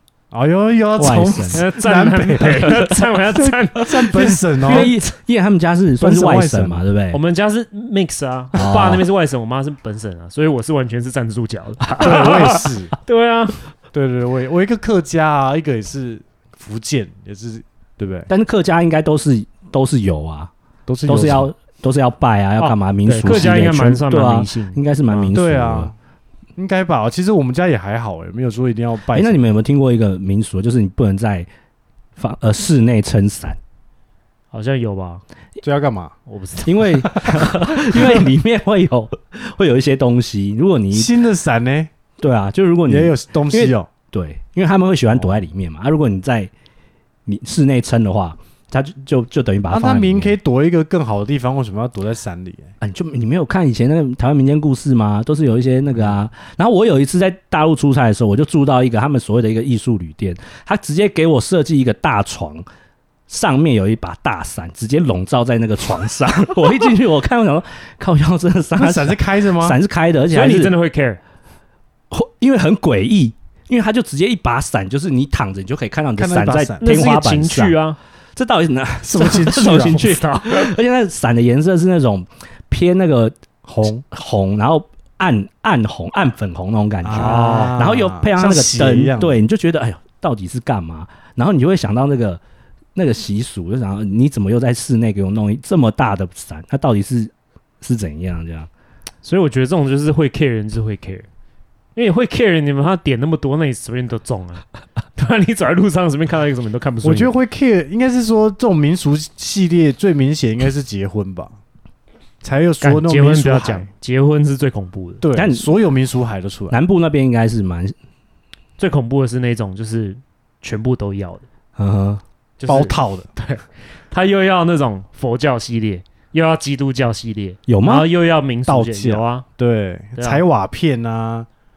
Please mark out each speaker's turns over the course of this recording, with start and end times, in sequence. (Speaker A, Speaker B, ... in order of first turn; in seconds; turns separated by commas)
Speaker A: 0.3-2.9, Speaker B: 0.9-1.6, Speaker C: 1.5-4.9, Speaker B: 2.6-2.9, Speaker A: 3.4-4.9, Speaker B: 4.1-7.2, Speaker A: 6.0-6.8, Speaker C: 7.1-13.6, Speaker B: 8.5-9.0, Speaker B: 11.9-12.5, Speaker A: 12.0-12.9, Speaker A: 13.9-18.3, Speaker B: 18.3-20.5, Speaker A: 20.9-21.5, Speaker B: 21.1-25.9, Speaker C: 22.6-25.4, Speaker A: 25.3-25.9, Speaker A: 26.6-29.4, Speaker B: 29.1-31.5, Speaker B: 32.2-33.6, Speaker C: 34.5-35.2, Speaker A: 35.6-36.2, Speaker C: 36.2-37.2, Speaker B: 36.6-41.1, Speaker A: 40.9-41.9, Speaker B: 42.2-46.5, Speaker A: 42.9-43.9, Speaker B: 47.2-50.4, Speaker A: 49.7-52.7, Speaker B: 52.8-62.7, Speaker B: 63.3-70.7, Speaker A: 68.8-69.8, Speaker C: 70.3-71.2, Speaker B: 72.1-77.8, Speaker A: 76.2-76.9, Speaker C: 76.8-78.0, Speaker B: 78.4-83.4, Speaker A: 79.0-80.1, Speaker C: 79.9-80.7, Speaker A: 83.7-84.0, Speaker B: 84.1-92.4, Speaker A: 87.0-89.4, Speaker C: 87.1-87.9, Speaker B: 92.9-98.7, Speaker C: 99.2-101.3, Speaker C: 102.0-104.6, Speaker C: 105.2-107.3, Speaker A: 107.0-111.5, Speaker A: 112.4-113.9, Speaker C: 112.8-115.2, Speaker A: 115.2-116.8, Speaker B: 115.3-115.7, Speaker B: 116.7-117.9, Speaker C: 118.8-121.5, Speaker B: 121.8-122.2, Speaker C: 122.6-129.4, Speaker A: 122.7-123.3, Speaker B: 127.7-128.1, Speaker A: 128.7-131.5, Speaker C: 130.2-130.4